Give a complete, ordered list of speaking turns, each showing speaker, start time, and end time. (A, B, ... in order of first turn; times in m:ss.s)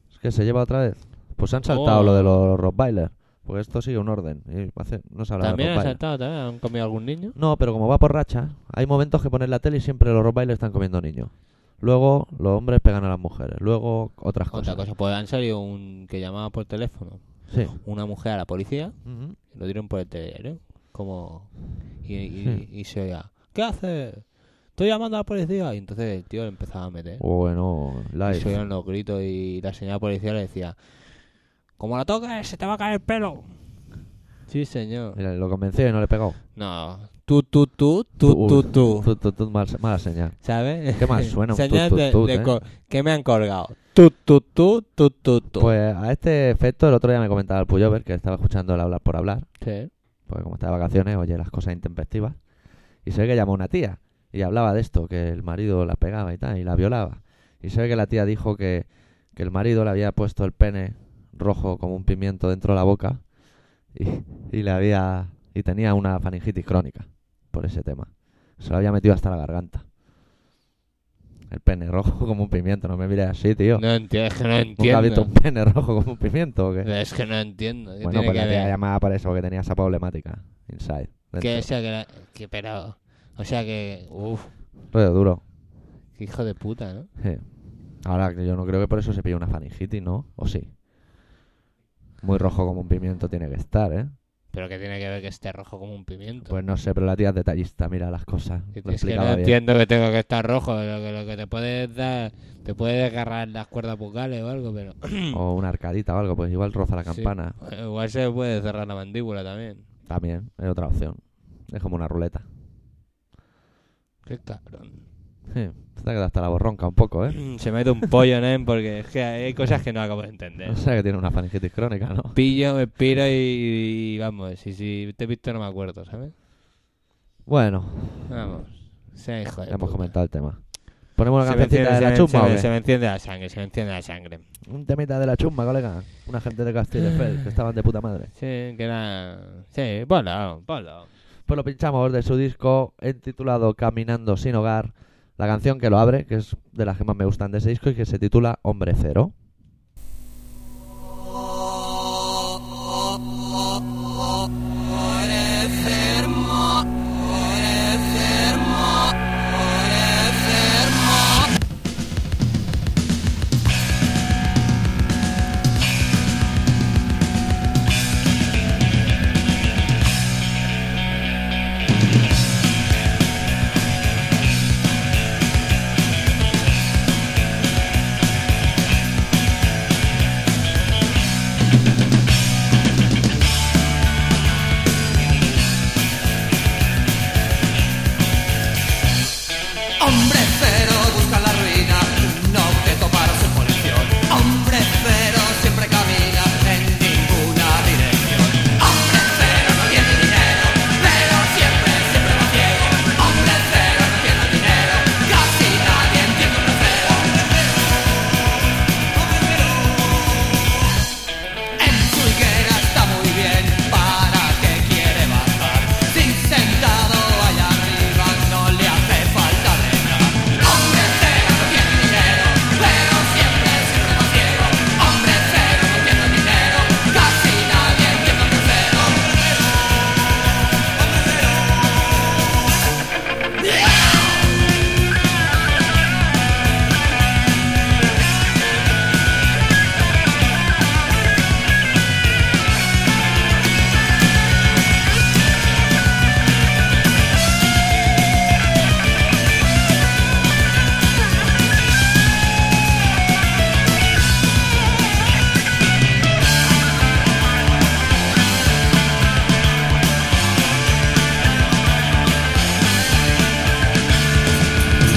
0:00.1-0:06.0 A
0:01.7-0:02.4 B
0:05.4-0:07.4 B
0:07.4-0:14.9 A
0:14.5-0:27.2 B
0:17.5-0:17.8 A
0:19.0-0:19.4 A
0:27.2-0:28.6 A
0:28.3-0:33.6 B
0:34.5-0:35.2 B
0:35.2-0:36.4 A
0:36.6-0:39.1 B
0:38.2-0:42.6 A
0:40.4-0:45.7 B
0:45.6-1:03.3 A
0:49.6-0:49.9 B
1:03.9-1:09.8 A
1:11.5-1:13.9 A
1:13.8-1:15.3 B
1:14.8-1:16.9 A
1:16.8-1:18.8 B
1:18.0-1:21.7 A
1:21.4-1:24.5 B
1:24.9-1:25.4 A
1:26.1-1:27.1 B
1:27.2-1:30.8 A
1:32.2-1:34.1 A
1:34.5-1:36.6 B
1:36.4-1:39.6 A
1:38.8-1:45.4 B
1:45.3-1:47.6 A
1:47.1-1:49.9 B
1:50.1-1:52.4 A
1:54.3-1:55.0 B
1:55.5-1:57.6 A
1:57.4-2:00.8 B
2:00.6-2:02.4 A
2:02.3-2:06.3 B
2:07.5-2:08.3 A
2:08.3-2:10.2 B
2:09.7-2:12.7 A
2:11.4-2:14.4 B
2:14.7-2:18.3 A
2:18.4-2:21.1 B
2:21.5-2:29.3 A
3:10.0-3:27.7 C
3:29.2-3:30.1 C
3:31.8-3:49.5 C